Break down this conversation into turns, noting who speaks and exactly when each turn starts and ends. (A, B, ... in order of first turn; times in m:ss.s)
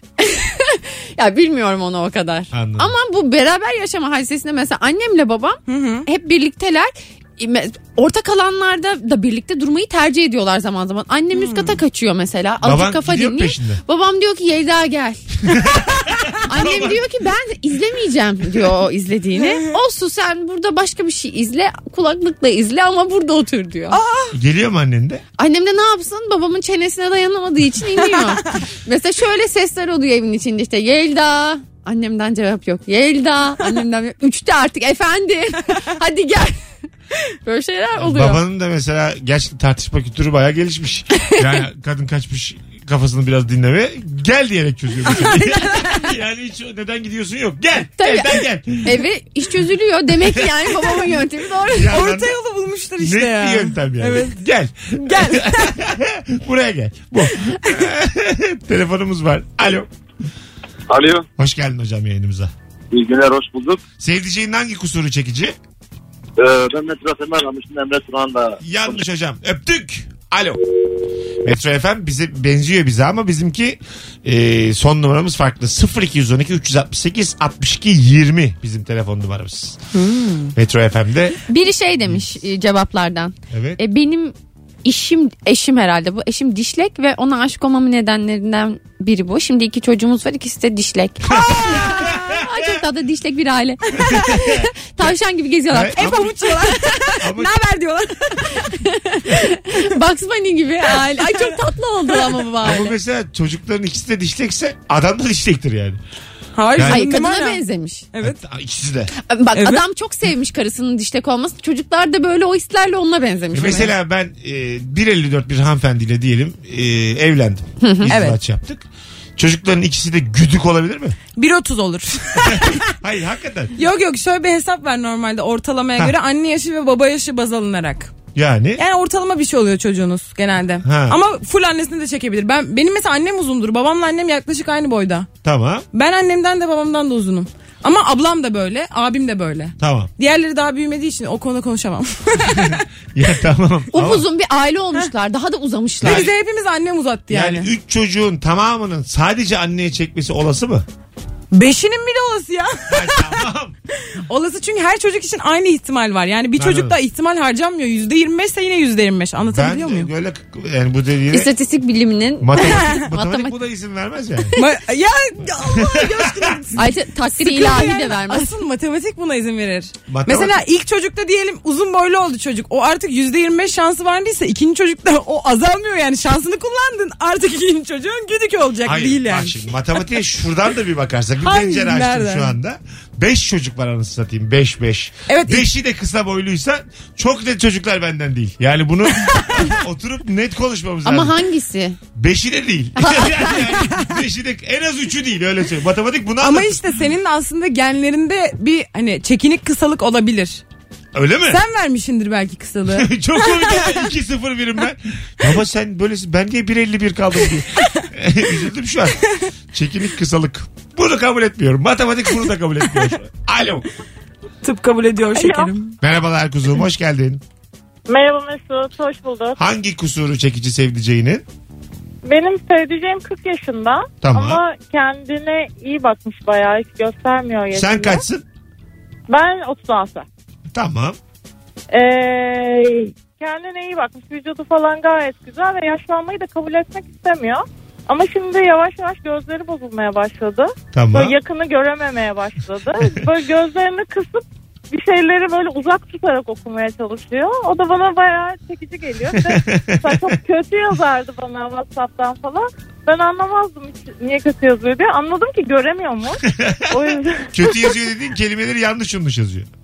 0:00.2-0:15.2 A
0:02.5-0:02.9 B
0:05.7-0:06.1 C
0:11.3-0:11.8 C
0:12.6-0:13.8 B
0:15.5-0:17.0 B
0:16.5-0:24.0 A
0:19.4-0:19.7 C
0:23.9-0:24.3 C
0:24.3-0:25.2 B
0:25.4-0:36.6 A
0:28.0-0:28.6 C
0:37.4-0:38.4 A
0:37.9-0:49.0 B
0:41.2-0:41.4 A
0:45.1-0:46.0 C
0:48.0-0:51.9 A
0:50.2-0:50.7 B
0:51.7-0:52.4 B
0:51.9-0:54.4 C
0:53.0-0:59.9 B
0:54.9-0:55.7 C
1:00.9-1:01.2 D
1:01.4-1:02.5 B
1:02.9-1:03.8 D
1:04.0-1:05.5 B
1:06.4-1:09.0 D
1:08.6-1:10.6 B
1:11.4-1:19.8 B
1:19.9-1:20.5 A
1:20.5-1:21.4 B
1:21.5-1:37.2 A
1:23.5-1:23.8 B
1:31.3-1:32.8 B
1:34.0-1:34.7 B
1:35.7-1:36.5 B
1:36.0-1:38.7 C
1:37.2-1:37.6 B
1:38.2-1:42.9 A
1:41.2-1:41.5 C
1:42.6-1:46.0 B
1:46.6-1:47.6 C
1:46.7-1:47.0 B
1:46.8-1:48.0 A
1:48.1-1:48.4 C
1:48.2-1:49.1 B
1:49.1-1:53.9 A
1:49.5-1:49.8 C
1:53.5-1:58.8 B
1:57.8-1:58.1 A
1:58.1-1:58.4 C
1:59.4-2:01.2 B
2:01.4-2:02.9 C
2:02.4-2:03.7 B
2:03.8-2:08.1 C
2:08.3-2:08.8 B
2:08.8-2:15.3 C
2:10.8-2:11.2 B
2:15.4-2:15.8 B
2:15.9-2:22.8 C
2:19.8-2:20.1 B
2:22.5-2:24.2 B
2:23.9-2:26.3 A
2:26.0-2:27.7 C
2:26.0-2:26.3 B
2:27.3-2:30.8 B
2:31.5-2:33.4 C
2:32.9-2:33.7 B
2:34.2-2:40.1 C
2:36.6-2:37.0 B
2:39.4-2:41.5 B
2:41.3-2:43.6 A
2:42.4-2:44.5 B
2:44.6-2:59.6 C
2:45.6-2:46.6 B
2:46.7-2:48.5 A
2:50.1-2:50.6 B
2:58.8-3:11.4 B
3:01.4-3:02.5 C
3:05.3-3:05.7 C
3:11.0-3:12.0 A
3:12.1-3:16.8 B
3:16.4-3:20.6 C
3:21.1-3:21.6 B
3:21.5-3:24.1 C
3:22.9-3:29.2 B
3:29.7-3:33.8 B
3:34.6-3:36.0 C
3:35.3-3:35.7 E
3:36.0-3:37.4 B
3:38.1-3:39.6 E
3:39.6-3:41.4 B
3:42.2-3:48.2 E
3:44.2-3:44.6 B
3:47.7-3:48.4 B
3:49.3-3:50.2 E
3:50.7-3:51.2 B
3:51.9-4:18.0 E
4:00.9-4:01.3 B
4:09.3-4:10.3 B
4:16.5-4:17.0 B
4:17.5-4:19.7 B